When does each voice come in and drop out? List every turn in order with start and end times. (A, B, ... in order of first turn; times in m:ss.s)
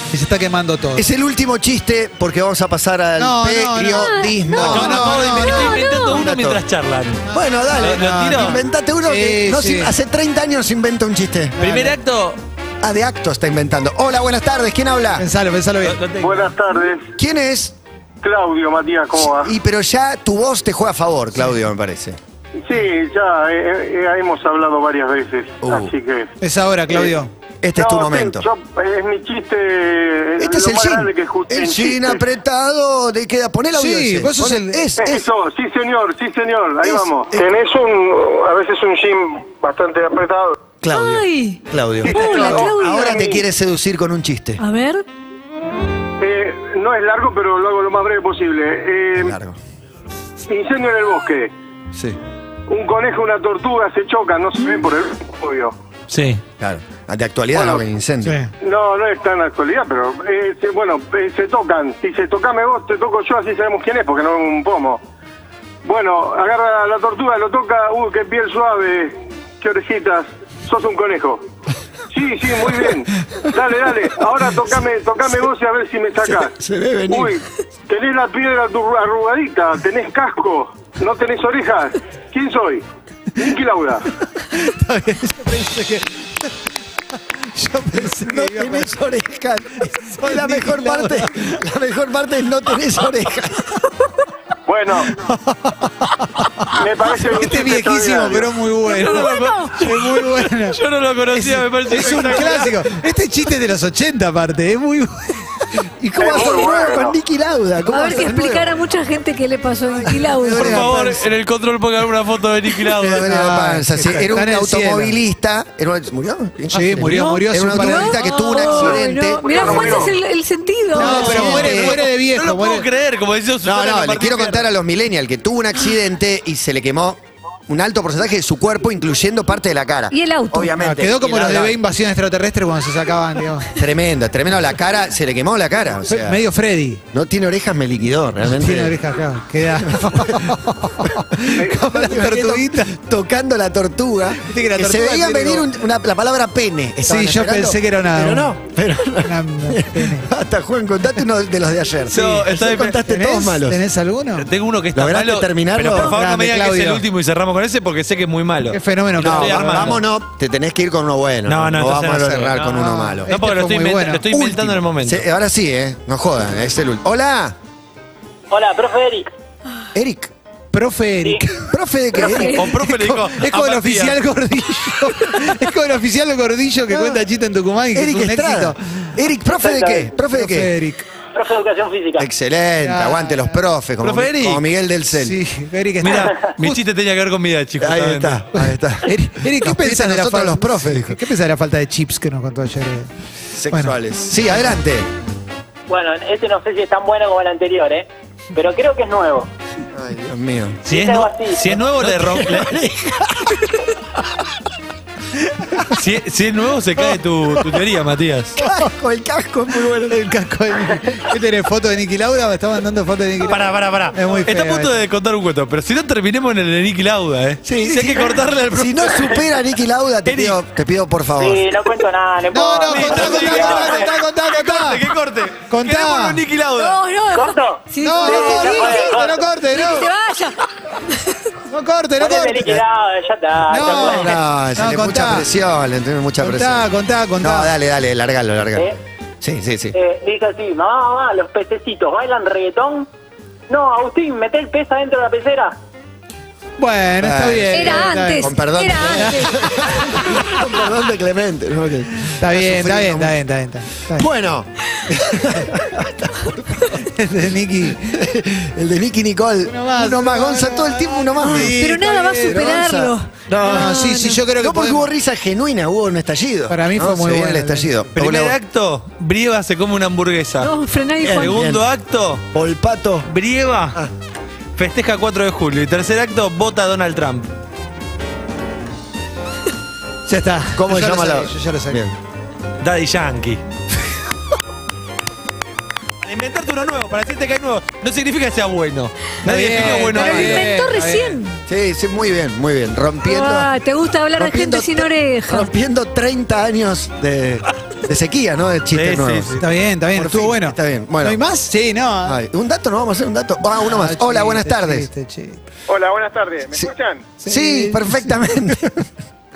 0:00.1-0:01.1 A
0:01.0-0:05.0 B
0:03.2-0:05.7 A
0:04.0-0:06.2 C
0:04.6-0:07.2 D
0:06.2-0:06.6 B
0:07.2-0:09.9 A
0:07.3-0:11.6 B
0:07.7-0:08.6 D
0:11.6-0:12.0 A
0:11.6-0:12.4 D
0:12.8-0:15.2 B
0:15.2-0:16.1 A
0:15.8-0:16.5 D
0:16.2-0:17.1 E
0:17.2-0:17.7 B
0:18.2-0:19.5 E
0:19.2-0:22.2 B
0:22.6-0:26.3 E
0:25.6-0:25.9 B
0:26.4-0:27.3 A
0:27.6-0:28.4 B
0:27.8-0:32.2 E
0:30.4-0:35.3 B
0:33.7-0:34.9 A
0:35.0-0:40.6 E
0:36.8-0:37.4 B
0:40.8-0:44.6 B
0:40.9-0:43.3 C
0:42.1-0:42.6 E
0:44.6-0:45.0 C
0:46.2-0:49.4 E
0:49.2-0:49.6 B
0:50.5-0:51.5 E
0:52.7-0:55.7 E
0:56.1-0:56.4 D
0:56.6-0:58.4 B
0:57.5-0:57.8 E
0:58.2-0:58.5 A
0:58.6-1:05.0 E
1:05.8-1:11.4 E
1:12.1-1:16.5 E
1:16.2-1:17.3 B
1:17.1-1:22.8 E
1:23.4-1:24.0 E
1:24.5-1:26.5 A
1:27.3-1:28.9 A
1:27.9-1:33.7 B
1:30.0-1:31.6 A
1:34.6-1:35.1 E
1:35.1-1:40.8 A
1:36.7-1:38.5 E
1:38.9-1:39.9 C
1:38.9-1:42.9 D
1:41.3-1:45.7 A
1:46.0-1:48.8 B
1:46.2-1:47.1 E
1:47.8-1:50.9 C
1:50.2-1:50.9 B
1:50.4-1:53.3 D
1:50.5-1:51.2 A
1:52.9-2:00.2 B
1:53.2-1:55.2 A
1:56.7-1:58.2 A
1:57.0-1:57.4 D
1:57.8-2:01.6 C
2:00.9-2:02.0 B
2:00.9-2:02.9 A
2:01.1-2:04.7 D
2:03.6-2:11.8 B
2:10.1-2:10.7 C
2:10.8-2:13.7 A
2:13.8-2:16.4 B
2:16.1-2:17.0 A
2:17.1-2:19.0 B
2:18.5-2:23.0 A
2:19.7-2:33.8 B
2:24.4-2:25.7 A
2:27.0-2:28.6 A
2:29.2-2:30.3 A
2:32.1-2:33.0 D
2:33.1-2:34.5 A
2:34.4-2:40.0 D
2:34.9-2:36.1 B
2:36.0-2:37.0 A
2:38.7-2:40.0 A
2:39.2-2:43.3 B
2:41.5-2:45.2 D
2:42.8-2:44.2 A
2:44.2-2:47.5 B
2:48.5-2:49.3 F
2:49.9-2:50.3 B
2:50.7-2:59.2 A
2:51.7-2:52.8 B
2:52.2-2:52.5 C
2:52.2-2:54.2 D
2:56.9-2:57.2 B
2:57.9-3:00.7 B
2:59.6-3:00.1 F
3:00.2-3:01.0 A
3:01.3-3:02.3 F
3:02.2-3:05.4 B
3:02.8-3:03.6 A
3:04.0-3:04.6 D
3:05.1-3:06.8 A
3:06.0-3:08.4 D
3:07.8-3:11.2 B
3:09.0-3:13.1 A
3:13.5-3:15.1 B
3:13.7-3:14.0 A
3:15.9-3:19.5 F
3:19.9-3:20.9 B
3:20.8-3:22.7 D
3:20.9-3:21.7 F
3:21.8-3:23.8 B
3:25.9-3:28.6 D
3:28.6-3:30.2 B
3:30.0-3:34.9 A
3:33.4-3:39.5 D
3:37.6-3:41.7 B
3:40.2-3:40.6 D
3:41.4-3:44.0 F
3:42.5-3:45.1 A
3:42.9-3:47.0 D
3:45.7-3:46.4 A
3:46.7-3:50.6 C
3:47.3-3:49.5 F
3:48.0-3:50.1 A
3:51.7-3:52.8 A
3:52.2-3:54.4 F
3:53.7-3:55.5 A
3:53.8-4:00.0 B
3:56.4-3:57.7 A
3:59.9-4:03.1 F
4:03.7-4:05.8 F
4:06.8-4:08.5 A
4:07.2-4:13.4 B
4:07.7-4:10.0 C
4:09.1-4:10.4 A
4:12.4-4:14.3 A
4:14.1-4:17.0 B
4:17.0-4:18.2 A
4:18.1-4:21.9 B
4:19.6-4:22.7 A
4:21.4-4:24.4 C
4:22.4-4:24.0 B
4:23.6-4:25.1 A
4:24.6-4:28.6 B
4:26.7-4:27.9 A
4:28.2-4:30.7 D
4:30.6-4:31.6 C
4:31.2-4:31.8 B
4:31.2-4:32.4 D
4:32.5-4:33.3 B
4:33.3-4:34.0 D
4:34.8-4:37.5 D
4:40.3-4:42.0 A
4:40.7-4:42.2 B
4:42.8-4:43.6 D
4:46.2-4:50.7 D
4:49.4-4:51.4 A
4:50.0-4:51.6 C
4:51.7-4:53.7 B
4:53.2-4:55.7 C
4:54.4-5:01.4 B
4:58.9-4:59.6 D
4:59.6-5:02.4 A
5:02.2-5:05.1 B
5:03.8-5:05.6 A
5:05.9-5:07.3 E
5:07.4-5:08.8 A
5:07.4-5:09.1 B